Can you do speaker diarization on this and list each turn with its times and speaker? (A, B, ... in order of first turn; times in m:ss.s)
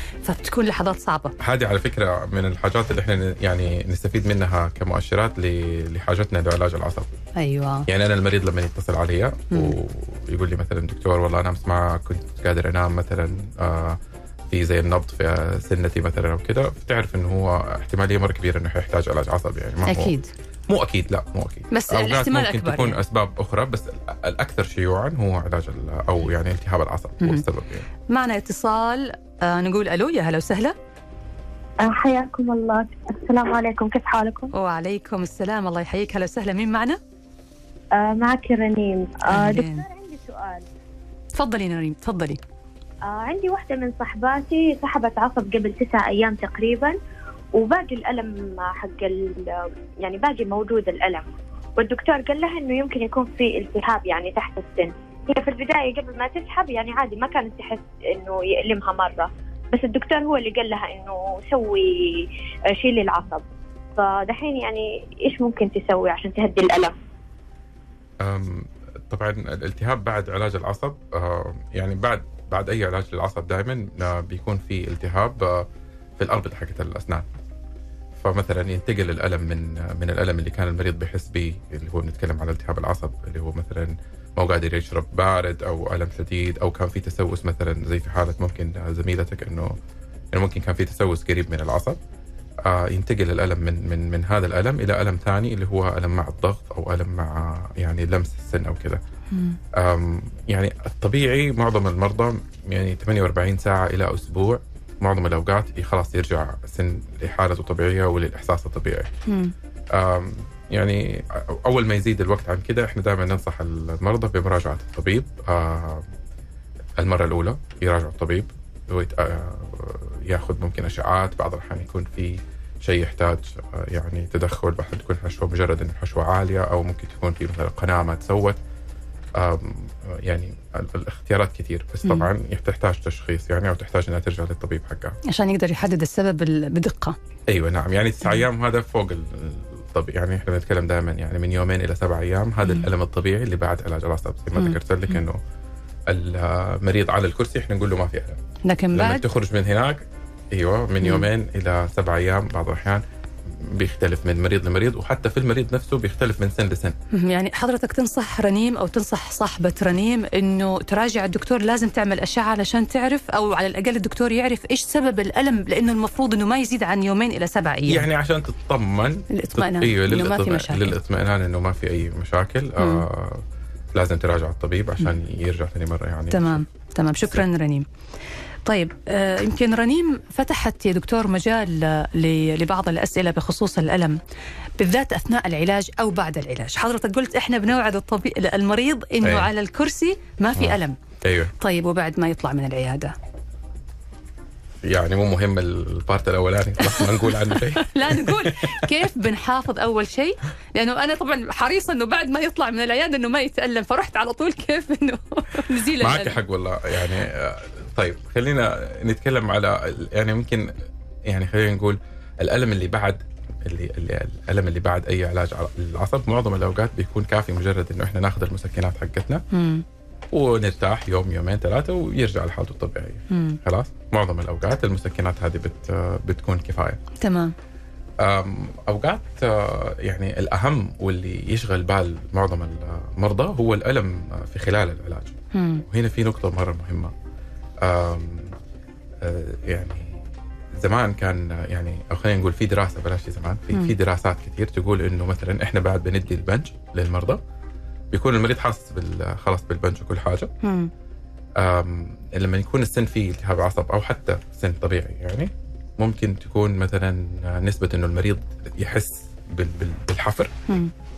0:00.2-0:01.3 A
0:01.4-0:07.1 B
0:07.4-0:07.9 A
0:07.9-0:14.0 B
0:14.5-0:20.1 B
0:19.8-0:20.3 A
0:20.7-0:27.9 B
0:21.7-0:23.0 A
0:28.1-0:30.7 A
0:31.8-0:34.5 C
0:34.5-0:37.0 A
0:38.0-0:40.6 C
0:39.3-0:39.8 A
0:41.3-0:42.4 A
0:43.1-0:47.0 C
0:47.6-1:03.4 C
1:04.0-1:06.9 C
1:08.2-1:15.7 B
1:16.2-1:17.3 B
1:18.2-1:29.8 B
1:30.3-1:32.0 B
1:32.6-1:39.0 B
1:39.3-1:39.6 A
1:39.7-1:49.1 B
1:49.3-1:49.5 A
1:49.9-1:56.1 B
1:57.0-2:08.6 B
2:09.4-2:15.2 B
2:15.3-2:17.2 A
2:17.5-2:25.4 B
2:26.1-2:28.4 B
2:28.6-2:29.2 A
2:28.9-2:36.9 B
2:31.0-2:31.3 A
2:37.1-2:48.0 A
2:47.8-2:56.6 B
2:49.3-2:50.9 A
2:52.8-2:53.0 A
2:56.3-2:57.8 A
2:58.6-3:04.2 A
3:04.8-3:11.0 A
3:09.2-3:09.5 B
3:10.6-3:11.5 B
3:11.6-3:13.1 A
3:14.8-3:19.0 B
3:16.8-3:17.1 A
3:17.7-3:26.4 A
3:26.0-3:30.7 B
3:31.3-3:39.4 B
3:39.5-3:39.8 A
3:40.3-3:47.0 B
3:43.3-3:43.6 A
3:47.2-3:47.5 A
3:48.2-3:57.1 B
3:55.5-3:55.8 A
3:57.8-3:58.5 B
3:59.2-4:00.2 B
4:00.7-4:07.4 B
4:08.1-4:10.5 B
4:10.6-4:10.9 A
4:11.6-4:20.5 B